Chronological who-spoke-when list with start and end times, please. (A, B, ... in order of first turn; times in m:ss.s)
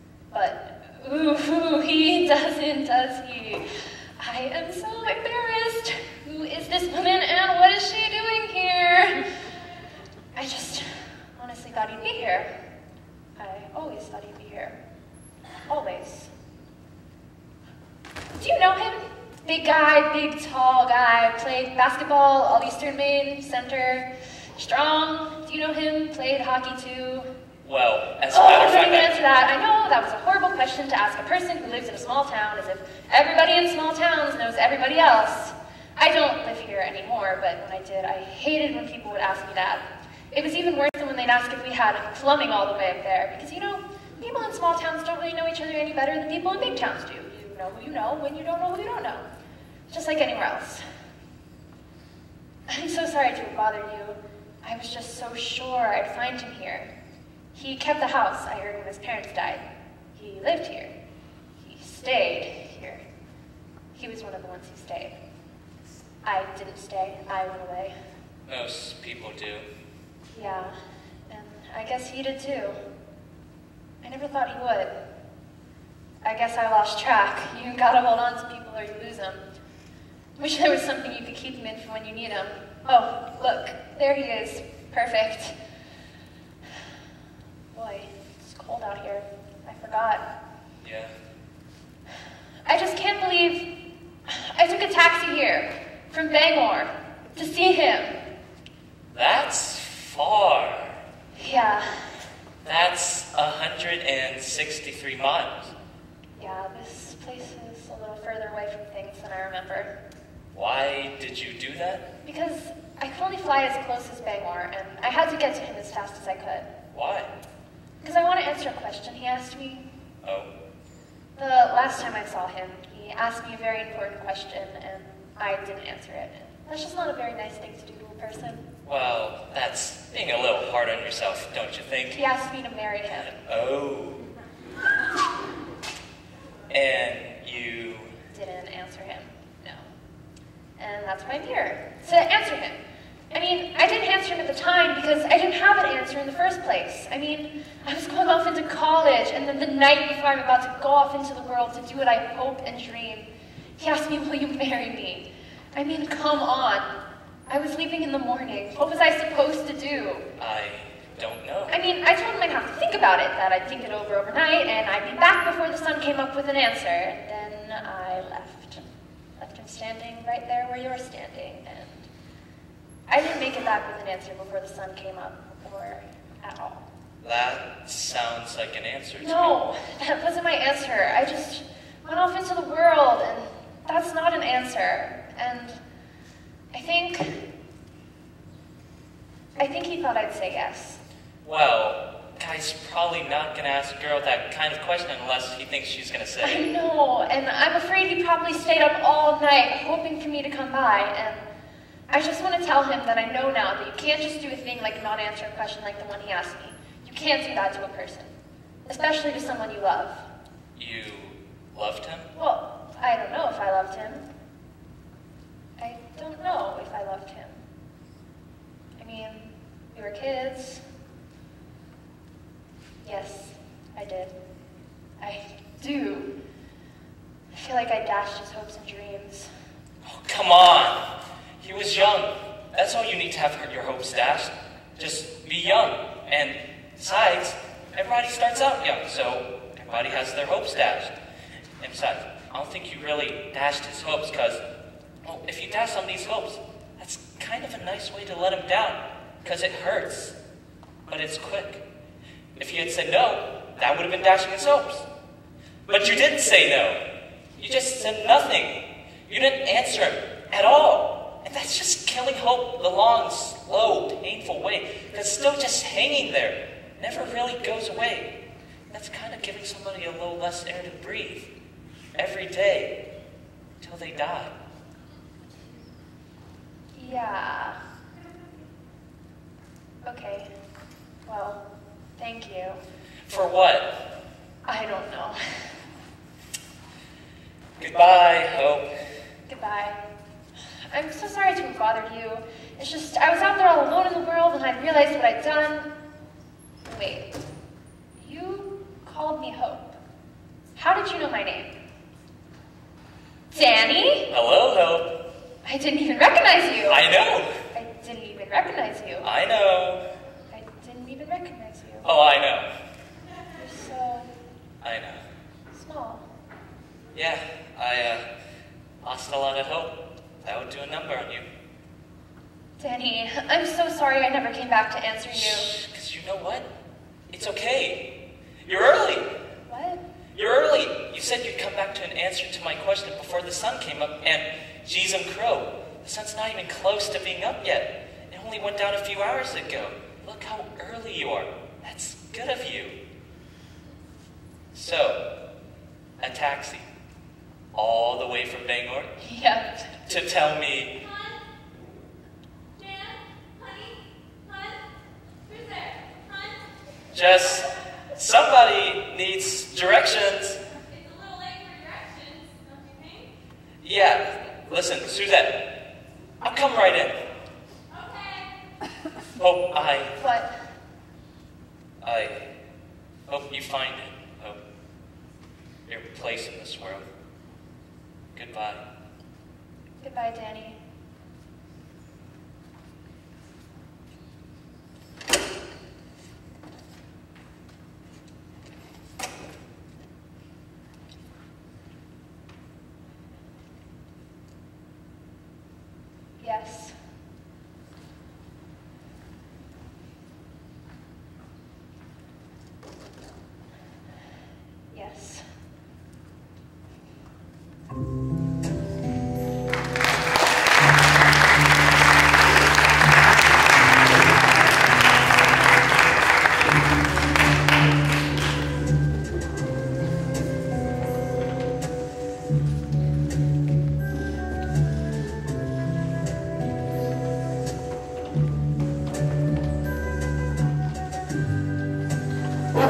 0:00.3-0:03.6 A
0:04.2-0:09.2 A
0:10.4-0:12.5 A
0:13.4-0:14.8 A
0:15.7-0:16.3 A
0:18.4-0:27.3 A
0:27.6-0:29.1 B
0:28.3-0:49.3 A
0:49.9-0:50.8 A
0:52.7-0:56.9 A
0:57.5-1:00.9 A
1:01.6-1:03.0 A
1:03.9-1:05.1 A
1:06.2-1:07.9 A
1:08.5-1:09.6 B
1:10.3-1:10.7 A
1:11.3-1:12.8 A
1:14.0-1:15.0 A
1:16.2-1:19.4 A
1:20.4-1:25.5 A
1:27.7-1:30.2 A
1:30.8-1:31.1 B
1:32.7-1:33.7 A
1:34.3-1:38.1 A
1:39.1-1:41.0 B
1:41.3-1:41.9 A
1:42.6-1:45.7 B
1:46.4-1:49.9 A
1:50.5-1:52.0 B
1:52.2-1:56.7 A
1:56.9-1:57.3 B
1:58.0-1:59.8 A
2:00.2-2:00.5 B
2:01.4-2:08.6 A
2:08.8-2:12.2 B
2:12.1-2:13.3 A
2:13.5-2:14.2 B
2:16.7-2:18.1 B
2:18.3-2:19.9 A
2:20.8-2:22.8 A
2:23.3-2:36.9 A
2:37.5-2:40.2 A
2:40.4-2:41.7 B
2:41.7-2:48.8 A
2:49.4-2:52.1 A
2:53.1-2:56.8 A
2:57.2-2:59.5 B
2:59.2-3:05.8 A
3:06.7-3:07.3 A
3:09.6-3:11.0 A
3:11.4-3:16.6 B
3:16.4-3:21.5 A
3:22.1-3:28.3 A
3:28.8-3:30.2 A
3:30.8-3:32.2 B
3:32.4-3:34.2 A
3:35.8-3:37.6 A
3:39.0-3:40.8 A
3:43.0-3:44.3 A
3:45.2-3:46.3 A
3:47.5-3:49.5 A
3:50.0-3:51.0 B
3:51.6-4:01.1 B
4:01.8-4:04.6 B
4:05.2-4:10.3 B
4:11.1-4:11.8 B
4:12.6-4:15.0 B
4:15.9-4:17.0 B
4:17.6-4:28.3 B
4:28.9-4:31.5 B
4:32.2-4:33.0 B
4:33.8-4:34.5 B
4:36.9-4:37.8 A
4:40.0-4:40.5 A
4:41.2-4:41.6 A
4:42.2-4:42.8 A
4:43.3-4:43.9 B
4:44.6-4:45.4 A
4:47.8-4:48.9 B
4:49.5-4:50.0 A
4:50.9-4:55.9 A
4:56.8-4:57.3 A
4:58.2-5:00.0 A
5:00.8-5:01.7 A
5:03.5-5:04.3 A
5:04.3-5:05.1 B
5:05.6-5:07.1 A
5:06.9-5:07.5 B
5:07.7-5:09.3 A
5:09.2-5:10.0 B
5:10.5-5:12.1 A
5:12.0-5:12.7 B
5:13.6-5:14.3 A
5:14.8-5:15.2 B
5:15.7-5:16.2 A
5:17.1-5:18.2 B
5:19.0-5:21.4 B
5:22.8-5:25.7 A
5:25.4-5:26.6 B
5:27.3-5:28.0 B
5:28.6-5:29.3 B
5:29.6-5:30.0 A
5:30.3-5:43.0 B
5:44.7-5:45.2 B
5:46.2-5:46.8 B
5:47.7-5:49.1 B
5:49.2-5:49.7 A
5:50.0-5:50.9 B
5:57.1-6:00.6 B
6:03.8-6:05.7 B
6:06.4-6:07.1 B
6:09.4-6:10.1 B
6:10.2-6:10.5 A
6:12.0-6:12.4 B
6:13.3-6:14.6 B
6:15.9-6:17.0 B
6:18.3-6:18.8 B
6:20.0-6:20.8 A
6:36.4-6:36.9 A
6:44.9-6:45.4 A